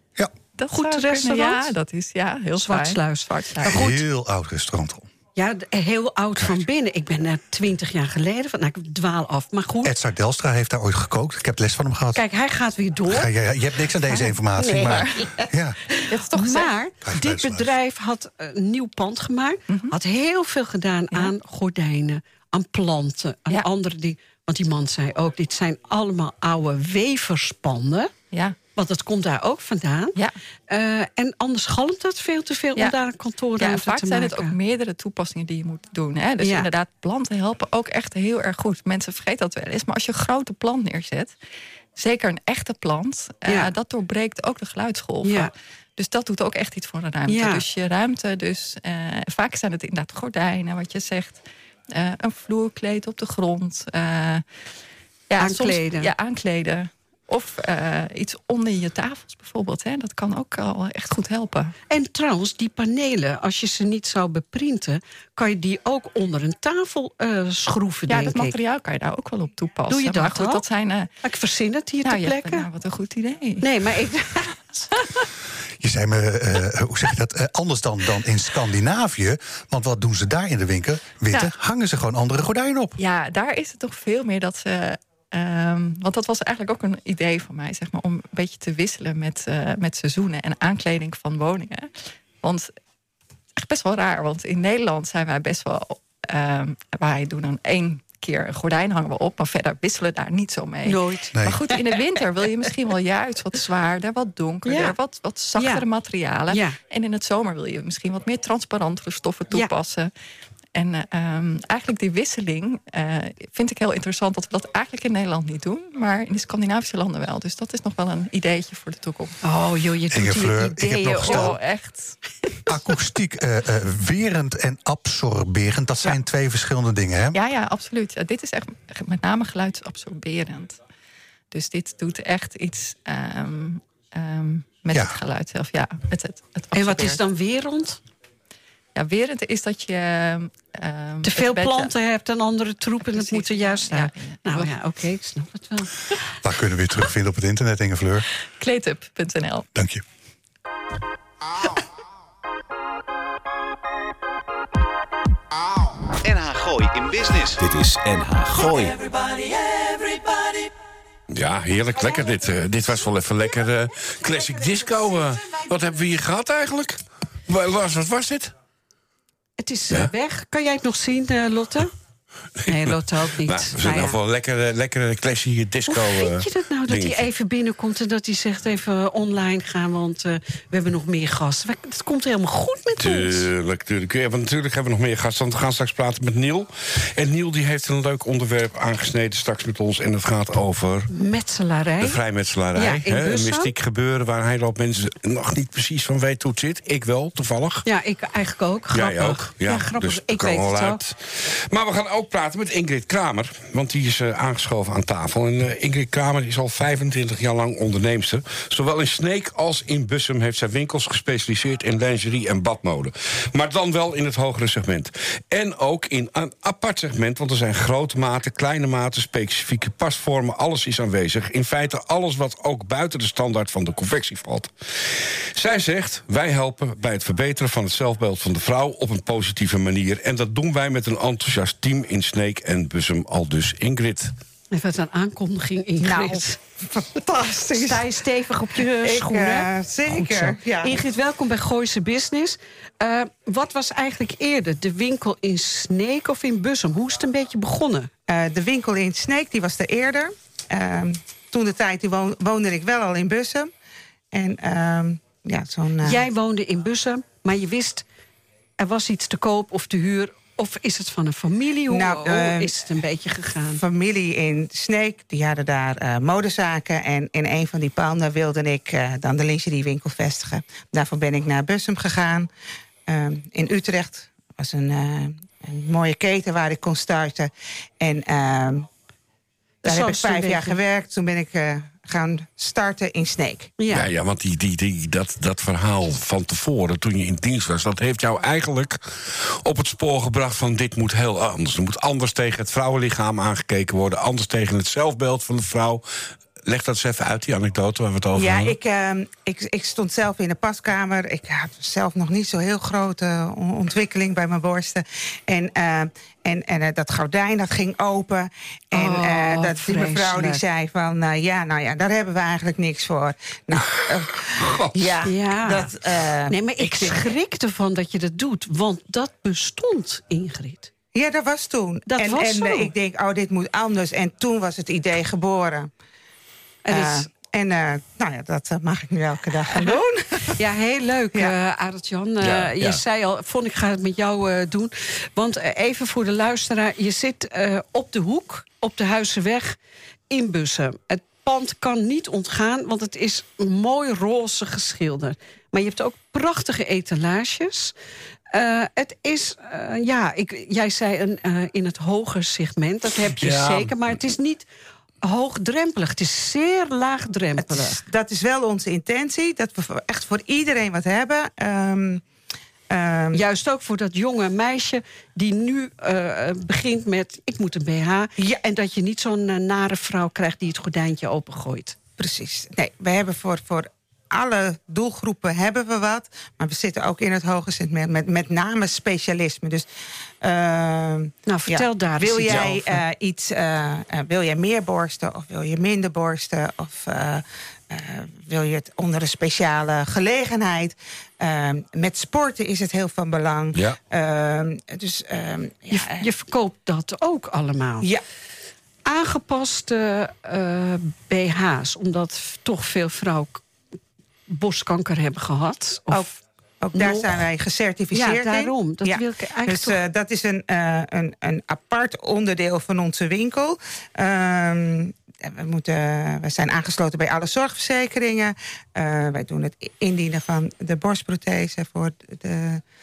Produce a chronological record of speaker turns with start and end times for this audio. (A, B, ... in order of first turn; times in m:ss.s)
0:00.6-0:03.8 A
0:00.7-0:01.7 B
0:02.6-0:04.0 B
0:03.6-0:05.1 C
0:05.4-0:09.9 B
0:09.8-0:12.2 C
0:12.1-0:13.3 B
0:13.1-0:15.8 C
0:14.6-0:15.2 B
0:16.0-0:28.1 B
0:16.1-0:16.7 A
0:17.0-0:17.7 C
0:19.7-0:19.9 A
0:28.3-0:28.6 A
0:28.7-0:30.2 B
0:30.7-0:34.5 B
0:33.6-0:41.3 A
0:36.4-0:36.7 B
0:42.0-0:51.4 A
0:43.5-0:43.7 B
0:45.2-0:45.5 B
0:47.3-0:47.6 B
0:51.9-0:54.4 A
0:55.3-1:01.7 A
0:55.4-0:56.1 B
1:01.9-1:08.6 B
1:08.1-1:11.1 A
1:09.9-1:10.6 B
1:11.2-1:12.7 B
1:12.0-1:13.7 A
1:13.6-1:15.2 B
1:15.8-1:23.0 C
1:23.0-1:31.9 A
1:32.4-1:32.7 A
1:33.6-1:50.1 A
1:40.8-1:41.8 B
1:41.3-1:41.6 C
1:44.6-1:45.0 B
1:45.6-1:45.8 B
1:46.5-1:46.8 B
1:50.7-1:59.4 A
1:59.4-2:01.6 B
2:00.1-2:01.6 C
2:01.2-2:02.2 A
2:02.7-2:07.4 C
2:07.3-2:10.8 A
2:11.5-2:17.2 A
2:14.9-2:15.2 C
2:16.7-2:18.0 B
2:18.9-2:21.9 A
2:21.2-2:26.0 B
2:23.0-2:24.7 A
2:26.4-2:28.2 C
2:28.6-2:29.7 A
2:29.7-2:30.0 C
2:36.2-2:39.1 D
2:41.3-2:48.5 E
2:49.6-2:51.9 B
2:52.6-2:57.2 E
2:52.7-2:54.2 B
2:55.9-3:03.5 B
3:03.0-3:11.1 E
3:11.1-3:12.2 B
3:12.0-3:17.8 E
3:12.7-3:13.7 B
3:17.8-3:21.0 B
3:18.9-3:54.3 E
3:54.7-3:56.6 B
3:56.0-3:58.1 F
3:57.7-4:08.1 B
3:58.8-4:01.0 F
4:08.3-4:13.7 F
4:14.3-4:16.2 F
4:16.0-4:18.0 B
4:18.8-4:23.8 B
4:21.9-4:22.9 F
4:23.7-4:32.5 F
4:33.1-4:38.9 F
4:39.8-4:43.7 F
4:39.8-4:40.8 B
4:43.8-4:44.1 B
4:43.9-4:56.0 E
4:56.6-4:58.8 E
4:58.4-5:17.3 F
5:08.9-5:10.6 B
5:14.5-5:15.2 E
5:15.2-5:15.9 B
5:16.5-5:20.9 B
5:21.1-5:25.9 F
5:22.1-5:22.9 B
5:26.8-5:27.3 B
5:26.9-5:30.6 F
5:29.7-5:30.0 B
5:30.6-5:39.8 B
5:32.4-5:33.0 E
5:40.3-5:47.9 B
5:48.5-5:54.7 B
5:53.3-5:53.9 E
5:55.2-5:58.0 B
5:57.6-6:02.2 F
6:02.9-6:03.4 F
6:03.3-6:12.0 B
6:12.2-6:19.9 F
6:20.4-6:36.3 F
6:21.5-6:23.0 B
6:35.9-6:38.0 B
6:39.0-6:43.6 B
6:44.5-6:46.4 B
6:46.8-7:02.8 F
6:46.9-6:47.4 B
6:48.1-6:50.0 B